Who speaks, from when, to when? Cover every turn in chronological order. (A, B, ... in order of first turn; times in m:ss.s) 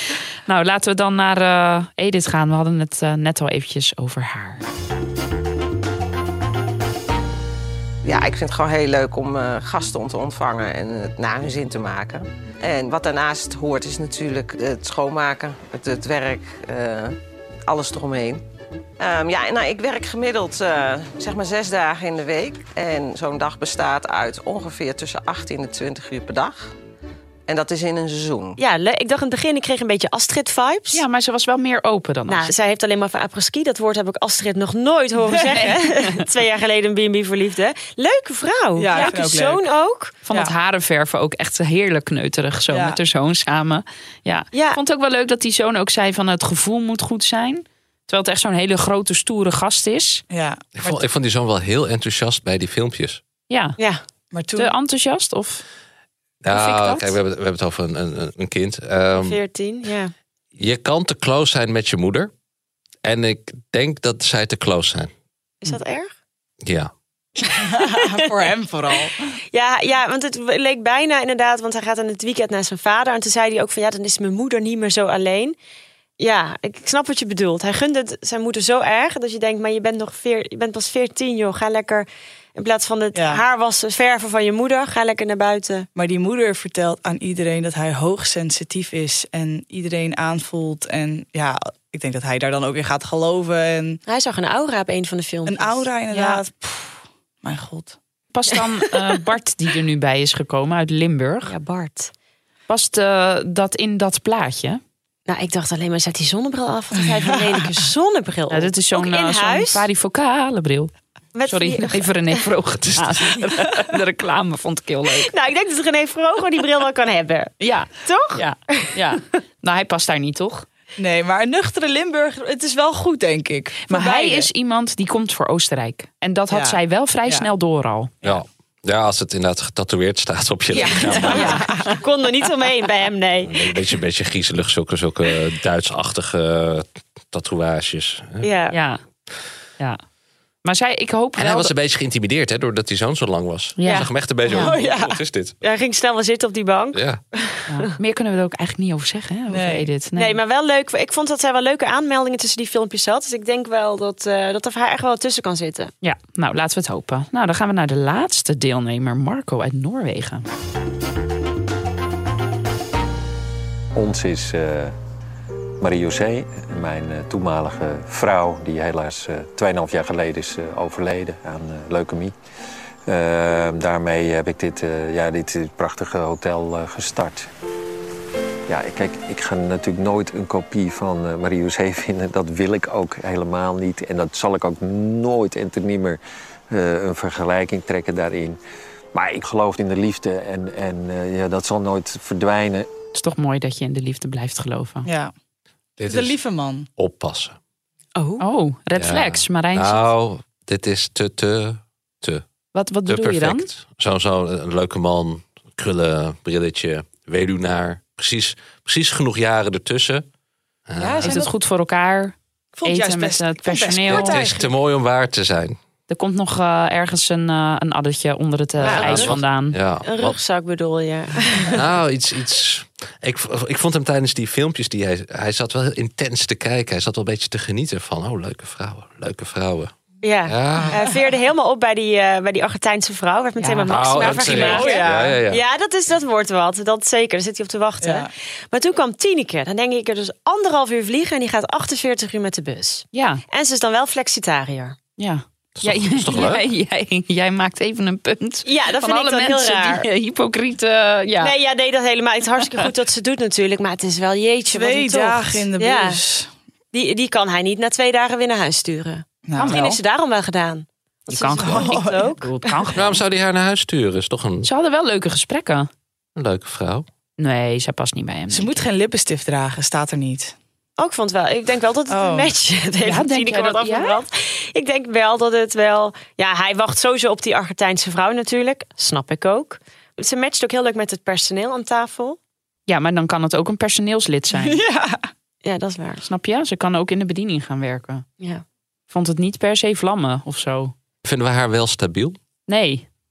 0:00.5-0:04.6 A
0:08.0-0:18.4 B
0:19.0-0:26.7 B
0:27.5-0:28.6 B
0:28.6-0:31.0 C
0:30.9-0:32.5 A
0:32.3-0:40.2 C
0:35.3-0:35.7 D
0:35.5-0:36.1 A
0:38.8-0:39.6 D
0:40.2-0:50.2 A
0:42.7-0:43.0 D
0:44.5-0:44.8 C
0:50.3-0:51.0 D
0:50.8-0:53.2 E
0:53.5-0:53.8 A
0:54.3-0:54.7 D
0:54.6-0:55.6 A
0:56.4-0:59.4 E
0:56.5-0:57.1 A
0:59.2-1:00.1 C
1:00.6-1:02.3 E
1:03.0-1:05.1 E
1:05.6-1:06.1 C
1:06.6-1:06.9 E
1:07.6-1:09.3 D
1:07.7-1:08.1 C
1:09.5-1:15.6 C
1:16.2-1:25.9 C
1:23.1-1:23.4 D
1:25.9-1:34.0 D
1:34.0-1:35.9 C
1:35.4-1:38.0 D
1:36.1-1:36.4 A
1:38.3-1:41.5 A
1:41.4-1:42.1 C
1:42.7-1:44.8 A
1:45.3-1:49.8 C
1:48.5-1:50.9 A
1:51.3-1:52.4 C
1:51.5-1:55.3 A
1:55.1-1:58.9 C
1:57.6-2:00.6 A
2:01.0-2:04.5 D
2:03.9-2:08.1 A
2:06.5-2:07.5 D
2:08.2-2:11.6 E
2:10.7-2:13.7 C
2:11.0-2:12.0 D
2:11.2-2:12.0 A
2:13.4-2:18.5 E
2:18.4-2:18.7 C
2:18.7-2:19.0 A
2:20.6-2:21.7 A
2:21.4-2:25.6 E
2:23.8-2:24.7 A
2:23.8-2:24.7 C
2:24.5-2:25.2 D
2:25.6-2:27.8 C
2:26.9-2:27.2 E
2:27.7-2:30.4 A
2:29.5-2:29.9 D
2:30.2-2:35.9 C
2:36.0-2:40.4 A
2:43.9-2:45.0 F
2:45.8-2:52.3 F
2:53.0-2:57.5 F
2:58.7-3:08.6 F
3:09.1-3:12.9 F
3:13.1-3:15.1 A
3:15.0-3:15.3 D
3:16.0-3:16.4 E
3:16.0-3:16.9 D
3:17.0-3:17.6 E
3:18.1-3:18.4 C
3:18.4-3:20.1 A
3:19.0-3:22.4 E
3:22.7-3:23.7 A
3:23.1-3:30.2 E
3:30.9-3:31.4 E
3:31.0-3:31.5 D
3:31.2-3:34.4 A
3:32.7-3:34.6 D
3:34.1-3:35.8 E
3:36.1-3:39.8 A
3:38.8-3:40.4 E
3:38.8-3:39.4 C
3:40.0-3:41.8 C
3:41.7-3:49.9 E
3:50.2-4:05.0 C
3:50.4-3:51.0 E
3:53.6-3:55.1 A
3:53.9-3:55.6 E
3:54.5-3:55.4 D
3:58.0-3:58.3 D
4:03.1-4:03.4 A
4:05.2-4:11.5 A
4:05.8-4:06.6 E
4:08.6-4:10.1 C
4:11.4-4:16.2 C
4:14.7-4:16.5 D
4:16.9-4:22.8 C
4:19.4-4:20.0 D
4:19.6-4:19.8 A
4:21.3-4:23.2 A
4:21.6-4:22.2 D
4:22.9-4:24.7 E
4:24.6-4:25.9 A
4:26.4-4:27.0 E
4:27.4-4:28.8 A
4:28.5-4:30.5 D
4:31.0-4:42.4 C
4:32.1-4:32.5 D
4:33.0-4:34.2 A
4:42.9-4:44.8 A
4:44.5-4:45.2 D
4:45.6-4:46.2 C
4:46.2-4:48.2 A
4:49.1-4:50.9 A
4:51.2-4:52.4 E
4:52.7-4:53.1 A